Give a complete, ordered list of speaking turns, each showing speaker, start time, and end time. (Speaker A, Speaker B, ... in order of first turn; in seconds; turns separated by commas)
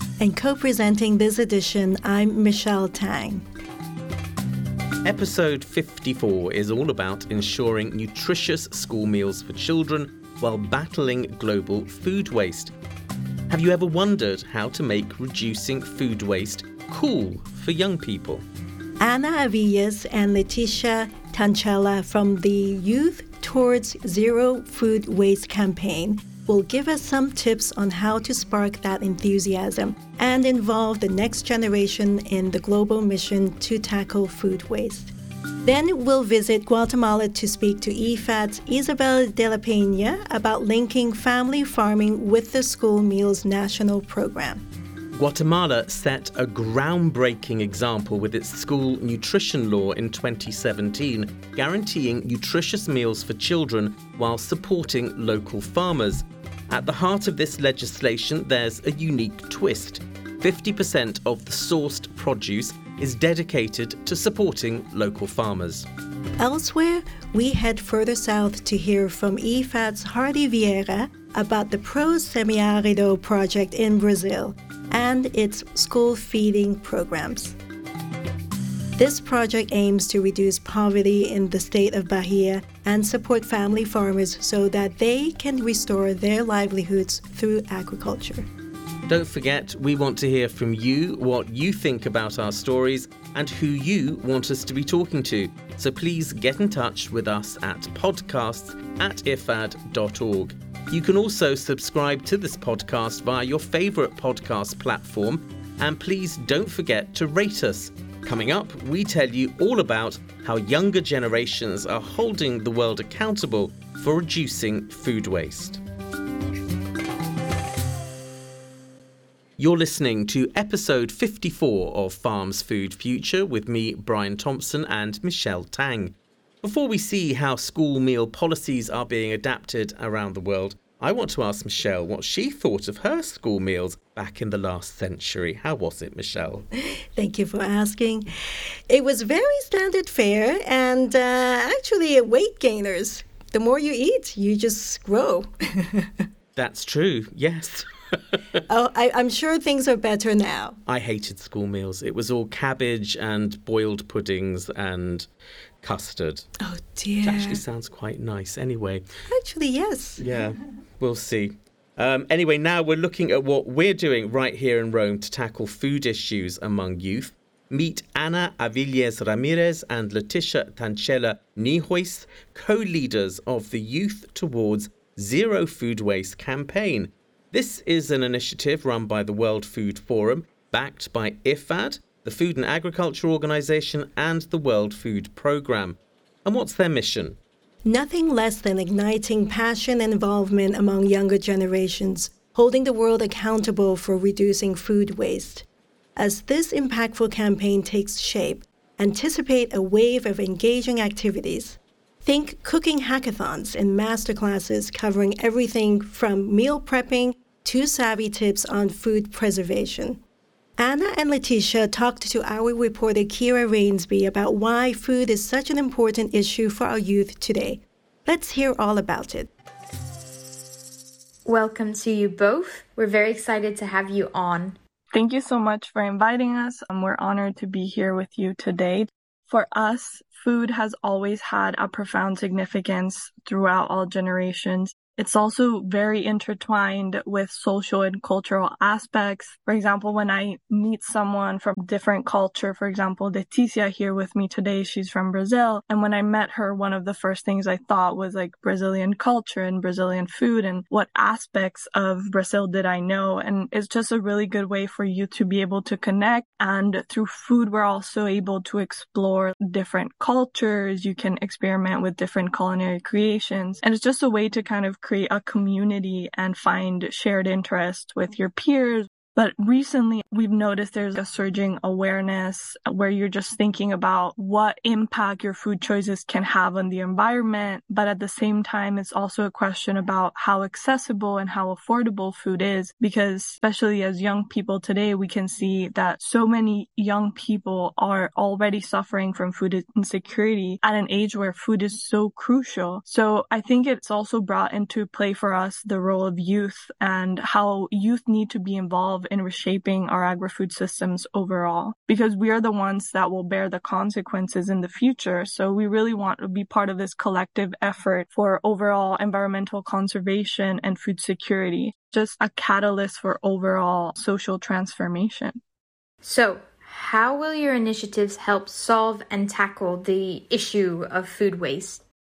Speaker A: 0.2-3.5, Speaker B: 5.0-12.7, Speaker B: 13.5-18.4, Speaker A: 19.0-35.1, Speaker A: 35.6-44.6, Speaker B: 45.1-65.9, Speaker A: 66.4-77.6, Speaker A: 79.0-88.5, Speaker B: 89.1-115.8, Speaker B: 119.6-136.7, Speaker A: 136.8-138.3, Speaker A: 138.9-146.3, Speaker B: 146.6-148.4, Speaker A: 148.7-150.8, Speaker B: 150.9-155.3, Speaker B: 155.8-156.5, Speaker A: 156.6-157.6, Speaker B: 157.2-159.1, Speaker A: 159.3-160.2, Speaker B: 160.2-187.4, Speaker A: 187.8-210.2, Speaker A: 210.8-219.5, Speaker C: 221.4-224.8, Speaker D: 225.1-315.6, Speaker C: 316.2-322.0